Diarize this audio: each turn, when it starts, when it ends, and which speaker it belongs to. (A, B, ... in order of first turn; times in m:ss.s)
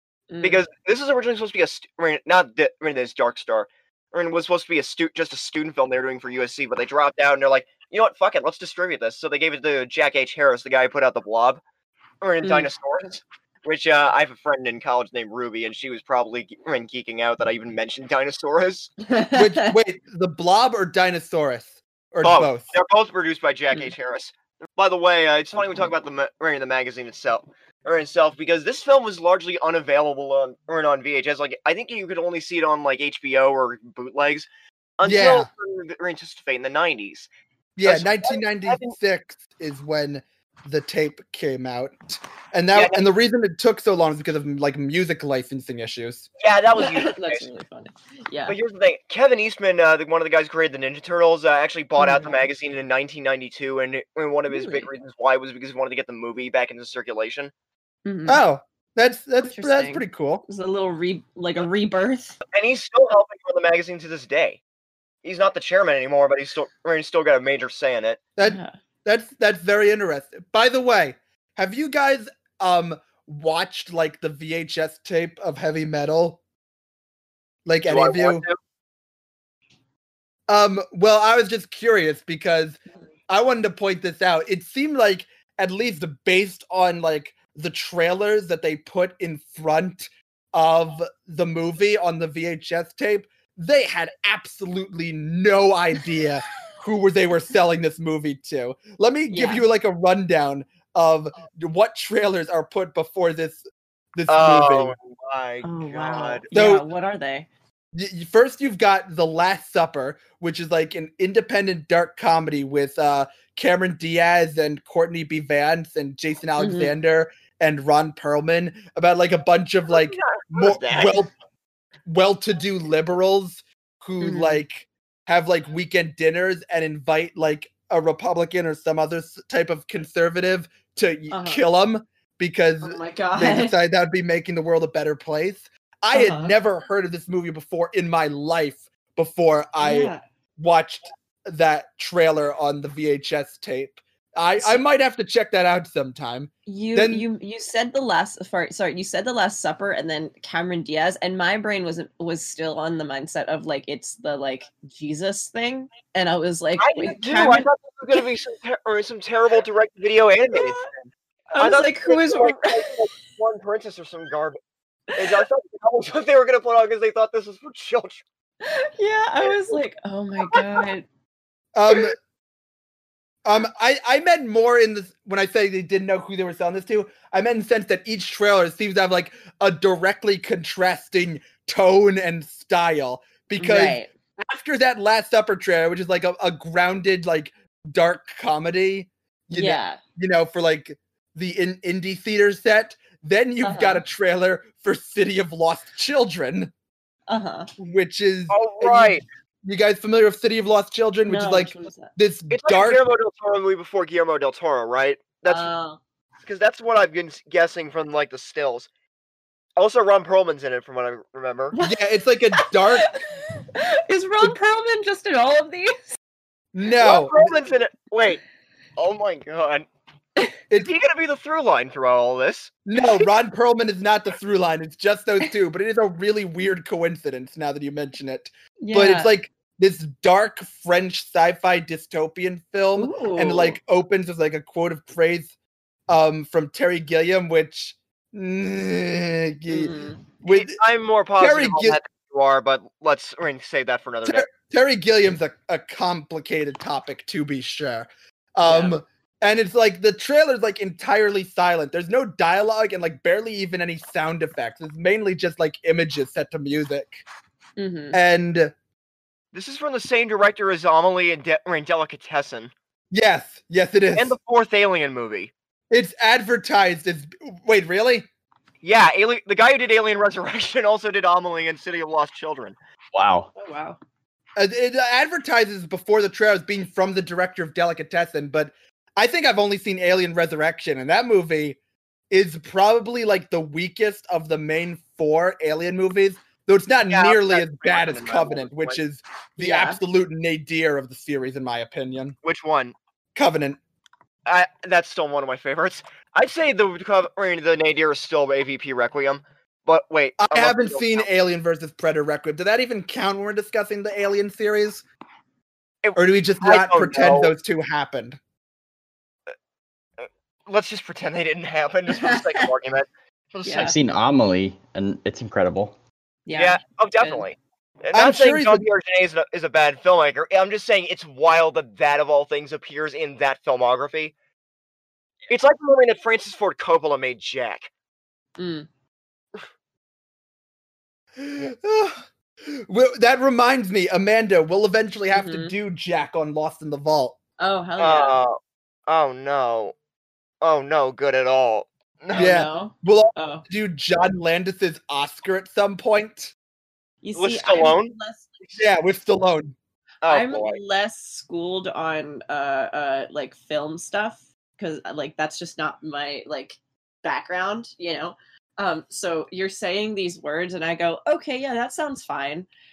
0:00.3-0:00.6 A
0:00.4-0:11.6 B
0:12.2-0:18.9 B
0:12.4-0:12.7 A
0:19.0-0:19.7 A
0:19.3-0:22.7 C
0:22.2-0:34.5 B
0:35.0-0:37.3 B
0:35.0-0:35.5 C
0:37.8-0:46.3 C
0:37.8-0:38.9 B
0:42.7-0:43.0 B
0:46.4-0:47.5 B
0:46.8-0:48.5 A
0:48.5-0:57.5 B
0:52.0-0:52.4 A
0:54.5-0:54.9 A
0:58.0-0:58.4 A
0:58.3-1:00.4 C
0:59.4-1:02.4 A
1:02.5-1:04.6 B
1:05.2-1:08.2 B
1:08.4-1:16.4 C
1:08.4-1:08.7 A
1:17.6-1:18.4 C
1:17.9-1:18.6 B
1:20.5-1:43.6 C
1:39.3-1:39.6 A
1:44.2-1:44.9 C
1:44.3-1:46.4 B
1:45.6-1:47.5 A
1:46.5-1:46.8 C
1:47.9-2:01.3 C
1:56.6-1:56.9 A
1:59.9-2:01.2 B
2:02.0-2:27.2 C
2:04.2-2:04.6 A
2:11.3-2:11.6 A
2:12.8-2:13.8 A
2:16.1-2:16.5 A
2:19.8-2:20.2 A
2:26.6-2:38.2 A
2:36.8-2:40.9 B
2:40.5-2:40.9 A
2:41.5-2:43.0 A
2:41.6-2:44.6 B
2:45.1-2:48.2 B
2:48.6-2:51.0 A
2:50.5-2:50.8 B
2:51.7-2:52.1 C
2:53.4-3:16.7 C
3:03.6-3:04.1 A
3:09.5-3:10.0 A
3:13.6-3:14.0 A
3:17.3-3:17.7 A
3:17.8-3:23.0 C
3:18.5-3:19.2 B
3:21.2-3:22.1 A
3:22.5-3:25.7 B
3:25.4-3:26.0 A
3:26.4-3:28.9 B
3:29.8-3:31.7 B
3:31.8-3:33.1 C
3:32.5-3:36.2 A
3:36.7-3:37.5 C
3:37.0-3:38.4 B
3:39.0-3:39.9 B
3:40.8-3:42.8 B
3:42.8-3:55.5 C
3:48.8-3:49.3 A
3:53.0-3:53.8 A
3:56.1-4:00.8 C
3:59.7-4:00.2 A
4:00.4-4:04.5 B
4:01.4-4:02.0 C
4:04.2-4:17.2 C
4:08.6-4:09.0 A
4:17.8-4:18.2 A
4:18.1-4:18.7 C
4:19.5-4:22.7 B
4:23.1-4:24.3 C
4:24.1-4:25.5 B
4:25.9-4:28.3 C
4:28.8-4:32.7 B
4:33.1-4:33.5 D
4:33.5-4:34.0 A
4:34.6-4:41.8 C
4:42.3-4:52.4 C
4:47.1-4:49.0 B
4:49.6-4:50.0 A
4:52.4-4:52.9 B
4:53.3-4:53.8 C
4:54.4-5:01.3 B
5:00.4-5:05.0 C
5:06.0-5:07.5 B
5:06.2-5:08.4 C
5:10.7-5:14.0 B
5:12.1-5:12.7 A
5:13.6-5:13.9 A
5:13.8-5:16.0 D
5:16.4-5:17.4 A
5:16.6-5:24.3 B
5:18.1-5:18.8 C
5:25.5-5:27.9 B
5:28.6-5:28.9 A
5:31.4-5:37.4 C
5:35.3-5:35.7 A
5:37.6-5:38.4 A
5:38.0-5:38.6 B
5:39.1-5:39.9 B
5:40.6-5:42.6 B
5:42.3-5:43.6 A
5:42.3-5:46.5 C
5:47.2-5:48.8 A
5:47.3-5:48.1 B
5:48.8-5:49.7 C
5:50.2-5:50.8 B
5:50.2-6:02.7 A